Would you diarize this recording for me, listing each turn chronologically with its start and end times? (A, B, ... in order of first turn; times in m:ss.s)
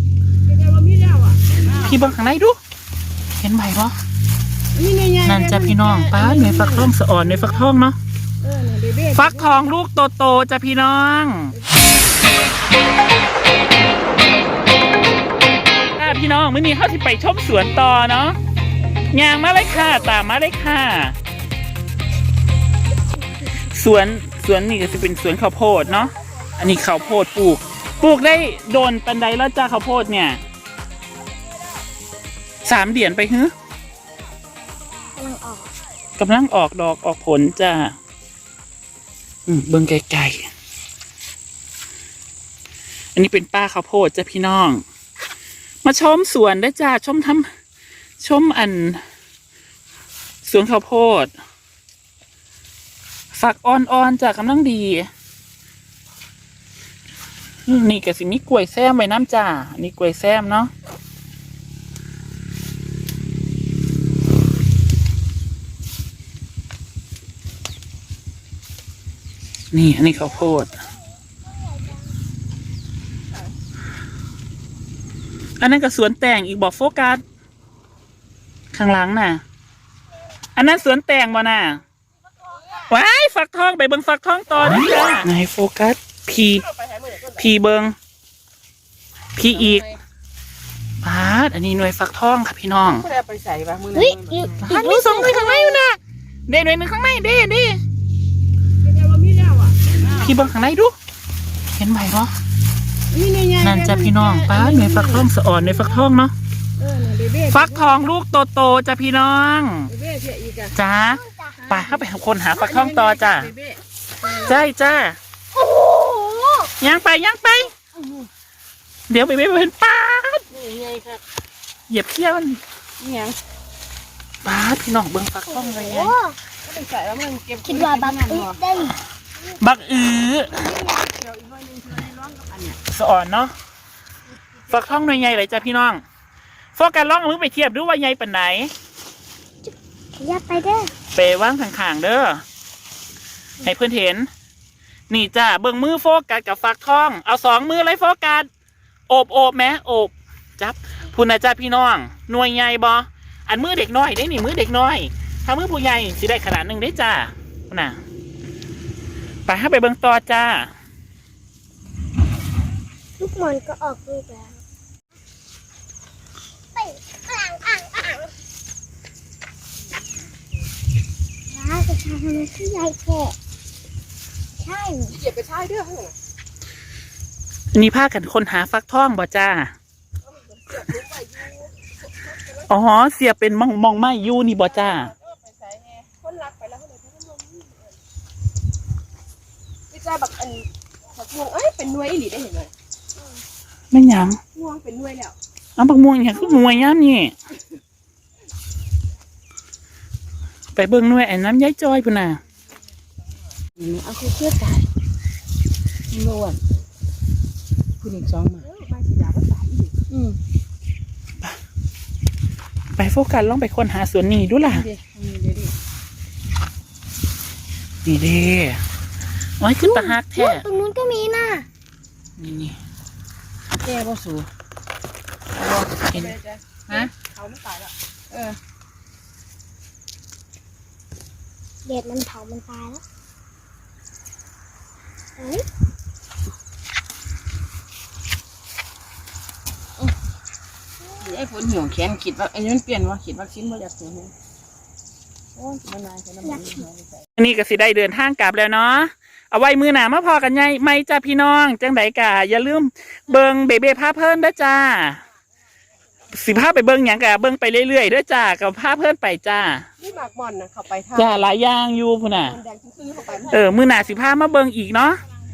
0:00.5-0:02.0 A
0:01.7-0:02.6 B
0:03.4-0:04.0 B
0:04.7-0:06.9 A
0:05.2-0:08.0 B
0:08.4-0:09.5 A
0:09.2-0:11.6 B
0:16.0-0:18.4 B
0:19.1-0:21.2 B
0:23.6-0:30.4 B
0:32.6-0:33.5 B
0:35.2-0:35.7 C
0:36.2-0:38.0 B
0:39.5-0:40.5 B
0:43.2-0:44.8 B
0:45.8-0:47.5 B
0:48.2-0:49.0 B
0:50.4-0:51.3 B
0:53.3-0:55.1 B
0:57.7-1:00.7 B
1:09.7-1:10.8 B
1:10.4-1:12.1 C
1:15.6-1:17.2 B
1:18.7-1:19.4 B
1:20.6-1:21.8 B
1:22.9-1:26.7 B
1:26.8-1:27.4 A
1:27.4-1:28.0 B
1:29.4-1:29.9 B
1:31.0-1:33.1 B
1:32.9-1:34.6 A
1:34.0-1:35.8 C
1:34.7-1:37.8 B
1:38.8-1:40.4 A
1:40.1-1:40.9 B
1:41.8-1:42.3 B
1:43.1-1:45.3 A
1:43.6-1:46.3 B
1:46.8-1:47.8 A
1:47.5-1:49.9 B
1:49.9-1:50.7 A
1:50.8-1:53.5 B
1:51.1-1:51.6 C
1:52.6-1:53.8 A
1:54.2-1:54.6 C
1:54.3-1:55.2 B
1:55.5-1:56.7 C
1:56.8-1:57.7 B
1:59.1-2:00.5 B
2:00.6-2:01.2 A
2:01.9-2:02.6 B
2:03.0-2:03.4 A
2:04.4-2:06.1 B
2:05.5-2:06.4 C
2:06.7-2:08.6 A
2:07.6-2:09.0 C
2:09.6-2:10.6 B
2:10.5-2:12.8 A
2:12.9-2:13.5 B
2:14.7-2:16.0 B
2:16.8-2:18.7 B
2:19.6-2:20.9 C
2:21.1-2:22.4 B
2:23.6-2:24.3 B
2:25.1-2:28.5 B
2:29.1-2:38.0 B
2:39.5-2:40.7 B
2:43.2-2:44.6 C
2:46.8-2:48.3 C
2:51.5-2:53.4 C
2:54.6-2:55.2 C
2:55.2-2:56.2 A
2:57.7-2:59.7 B
3:00.7-3:01.5 A
3:02.7-3:05.1 B
3:04.9-3:07.8 A
3:09.9-3:12.7 A
3:13.9-3:14.4 B
3:14.6-3:15.4 A
3:15.8-3:17.4 B
3:20.8-3:22.4 B
3:23.8-3:24.8 A
3:26.1-3:26.6 A
3:28.0-3:30.3 A
3:33.0-3:34.9 B
3:34.7-3:35.7 A
3:38.0-3:38.8 B
3:39.6-3:40.6 B
3:39.8-3:41.7 C
3:42.4-3:42.8 B
3:43.9-3:44.5 A
3:45.6-3:48.6 A
3:51.9-3:53.0 C
3:55.4-3:55.7 C
4:01.2-4:04.3 A
4:05.6-4:07.0 A
4:06.4-4:06.8 C
4:07.4-4:15.2 B
4:16.3-4:19.9 B
4:20.0-4:21.5 A
4:21.1-4:22.6 B
4:22.3-4:23.6 A
4:23.5-4:25.2 B